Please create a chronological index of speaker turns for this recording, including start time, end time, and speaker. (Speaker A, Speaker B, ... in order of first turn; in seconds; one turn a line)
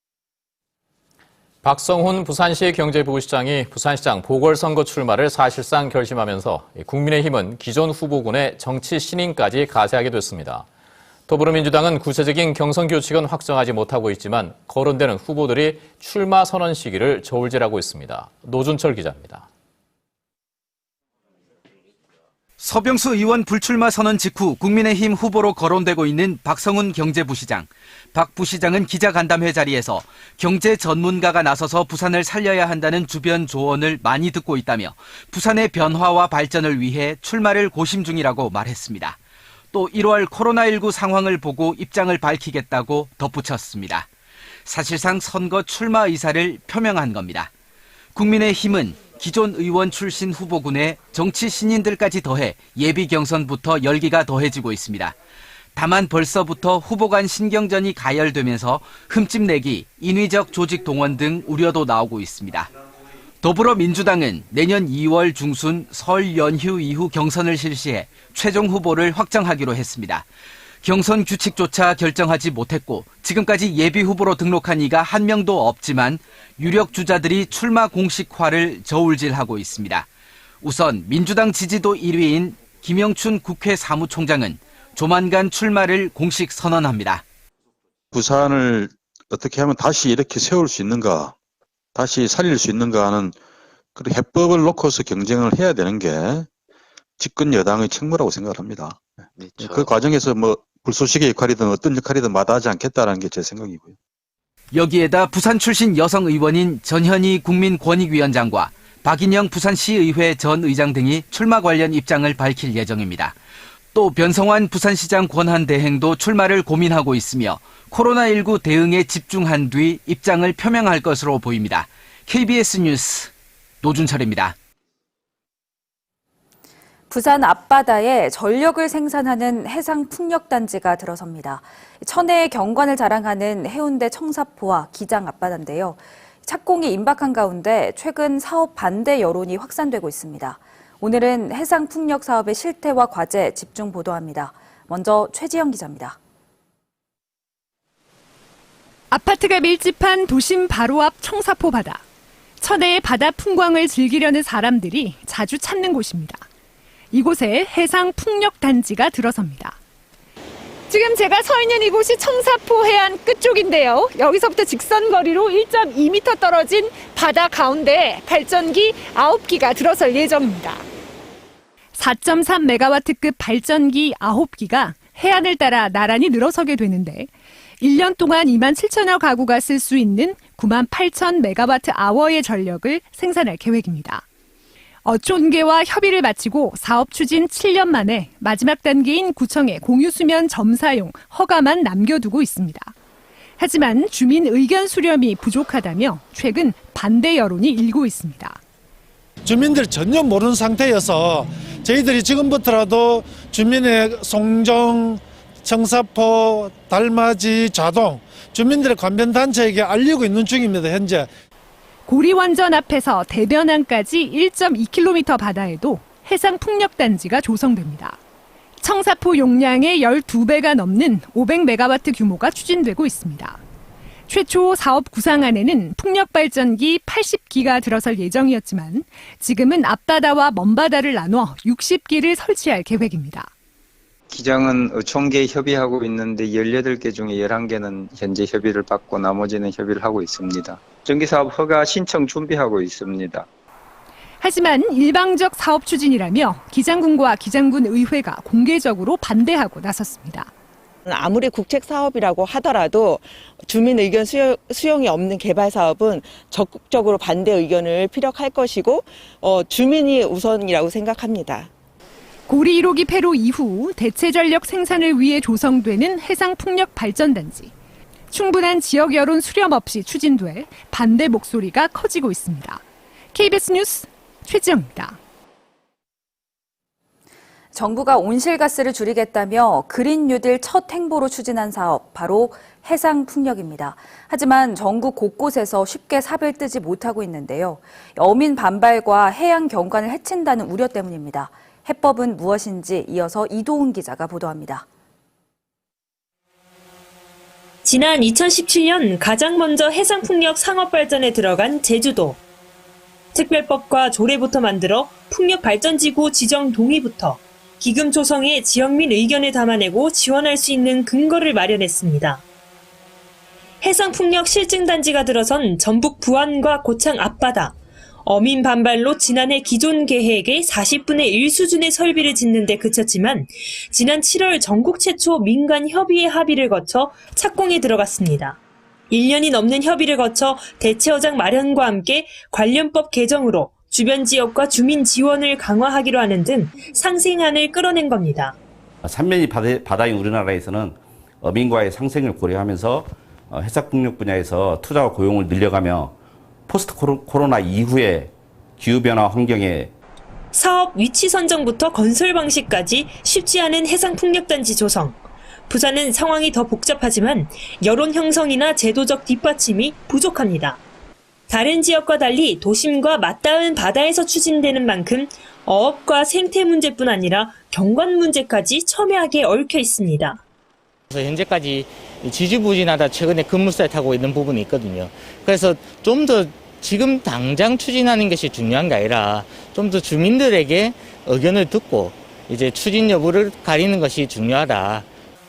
Speaker A: 1.6-10.7
Speaker A: 11.3-19.4
Speaker B: 22.6-39.2
Speaker B: 39.7-44.1
Speaker B: 44.6-47.5
Speaker B: 48.1-55.1
Speaker B: 55.7-62.7
Speaker B: 63.4-70.2
Speaker B: 70.8-80.1
Speaker B: 80.6-87.2
Speaker C: 88.1-91.3
Speaker C: 91.9-93.4
Speaker C: 94.0-96.5
Speaker C: 97.2-99.0
Speaker C: 99.6-104.0
Speaker B: 104.7-113.3
Speaker B: 113.9-123.3
Speaker B: 123.8-124.5
Speaker D: 127.1-146.2
Speaker E: 149.1-152.0
Speaker E: 152.6-156.4
Speaker E: 157.1-159.8
Speaker E: 160.9-170.8
Speaker E: 171.9-177.3
Speaker E: 177.8-184.2
Speaker E: 185.0-192.9
Speaker E: 193.6-198.6
Speaker F: 199.4-211.3
Speaker E: 212.1-218.2
Speaker E: 218.8-223.6
Speaker E: 224.3-233.5
Speaker G: 234.3-243.5
Speaker E: 244.4-250.5
Speaker H: 251.1-261.7
Speaker E: 262.5-267.7
Speaker E: 268.3-272.8
Speaker E: 273.3-275.2
Speaker D: 277.7-294.9
Speaker I: 297.8-302.4
Speaker I: 303.3-312.4
Speaker I: 313.8-328.6
Speaker I: 329.1-338.6
Speaker J: 339.0-346.1
Speaker J: 346.7-349.9
Speaker I: 350.5-355.2
Speaker I: 355.7-360.8
Speaker I: 361.5-370.4
Speaker K: 371.1-385.1